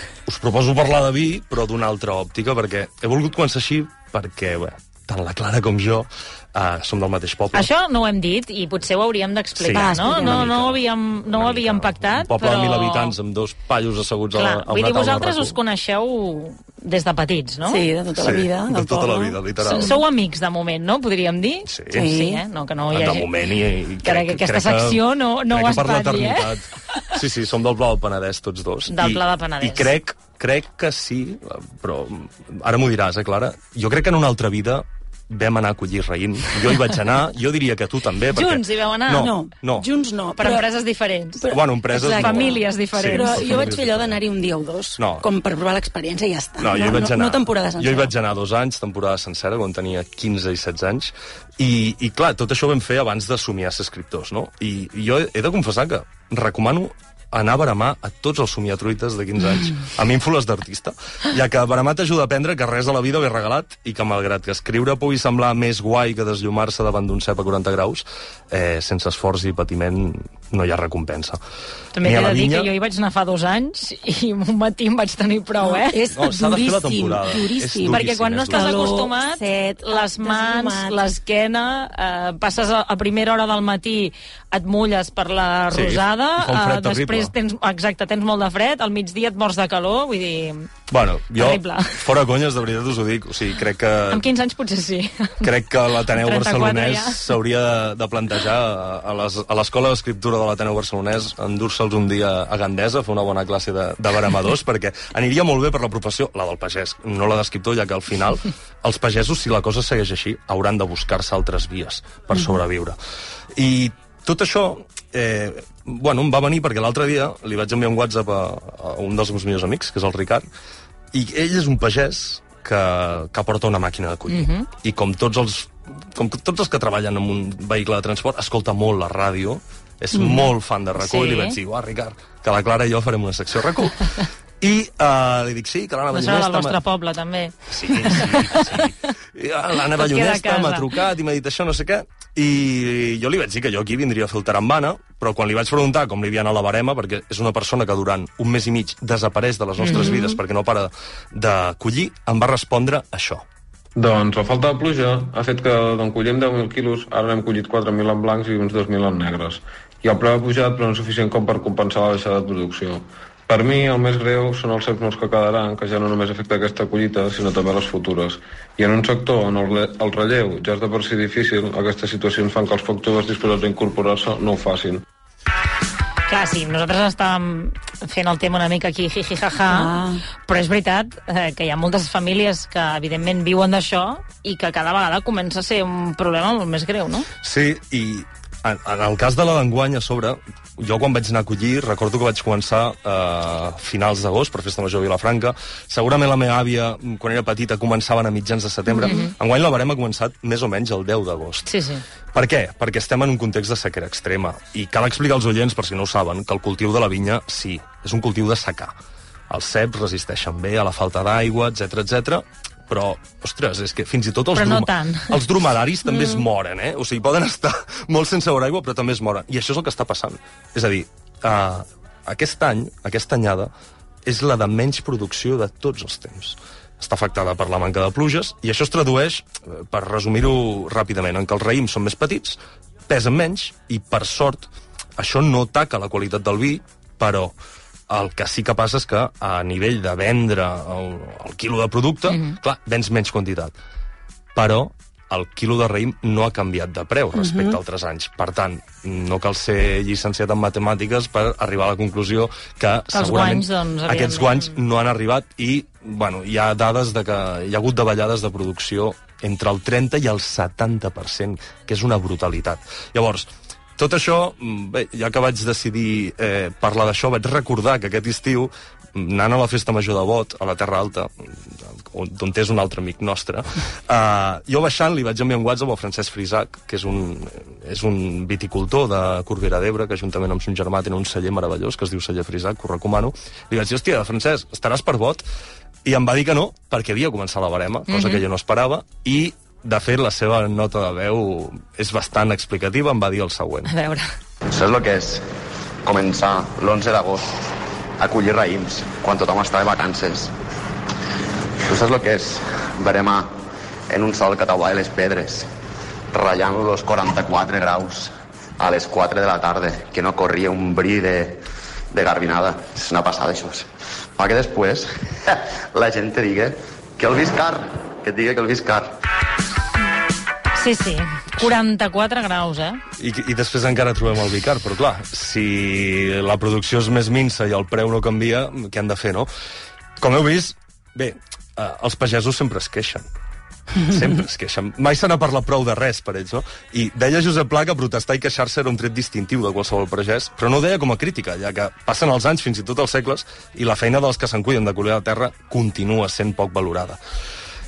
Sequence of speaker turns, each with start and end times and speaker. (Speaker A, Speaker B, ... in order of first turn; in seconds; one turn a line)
Speaker A: 0.2-7.7
Speaker B: 7.5-13.1
Speaker A: 9.6-15.6
Speaker C: 9.7-10.5
Speaker B: 14.3-17.9
Speaker C: 17.6-20.0
Speaker A: 18.1-20.0
Speaker B: 19.7-23.3
Speaker A: 21.6-22.1
Speaker C: 21.9-22.4
Speaker A: 22.9-39.9
Speaker B: 24.0-27.0
Speaker B: 28.9-29.9
Speaker B: 38.3-39.3
Speaker C: 39.1-40.7
Speaker B: 40.4-43.7
Speaker C: 41.4-48.1
Speaker A: 41.5-44.2
Speaker A: 45.0-45.2
Speaker A: 46.6-71.4
Speaker B: 71.9-76.0
Speaker A: 72.0-72.7
Speaker C: 75.6-81.0
Speaker A: 76.1-79.0
Speaker B: 77.9-90.7
Speaker A: 85.7-87.3
Speaker A: 90.9-94.2
Speaker B: 91.3-92.0
Speaker B: 94.1-95.5
Speaker A: 95.4-113.0
Speaker B: 96.1-97.2
Speaker A: 113.5-120.5
Speaker A: 121.1-136.8
Speaker B: 124.3-124.7
Speaker C: 130.2-130.4
Speaker B: 131.0-131.6
Speaker B: 136.1-138.9
Speaker A: 137.7-153.4
Speaker B: 140.0-140.9
Speaker B: 149.8-150.2
Speaker D: 154.0-175.0
Speaker B: 176.3-179.9
Speaker C: 179.7-180.2
Speaker B: 180.5-187.3
Speaker A: 187.4-201.7
Speaker B: 199.0-199.3
Speaker B: 201.7-202.0
Speaker A: 202.3-208.9
Speaker A: 209.5-223.7
Speaker B: 214.5-215.4
Speaker B: 216.1-216.4
Speaker A: 224.2-237.5
Speaker A: 238.1-243.7
Speaker A: 244.5-285.5
Speaker C: 247.3-247.8
Speaker B: 253.1-254.7
Speaker A: 286.0-293.9
Speaker B: 288.1-288.4
Speaker B: 293.9-294.3
Speaker E: 294.7-295.4
Speaker E: 296.1-297.5
Speaker E: 298.2-300.5
Speaker E: 301.9-303.5
Speaker E: 304.1-305.7
Speaker E: 306.3-311.6
Speaker E: 312.1-313.9
Speaker E: 314.4-319.1
Speaker B: 320.8-323.0
Speaker A: 323.2-329.5
Speaker A: 330.2-333.3
Speaker A: 334.0-347.2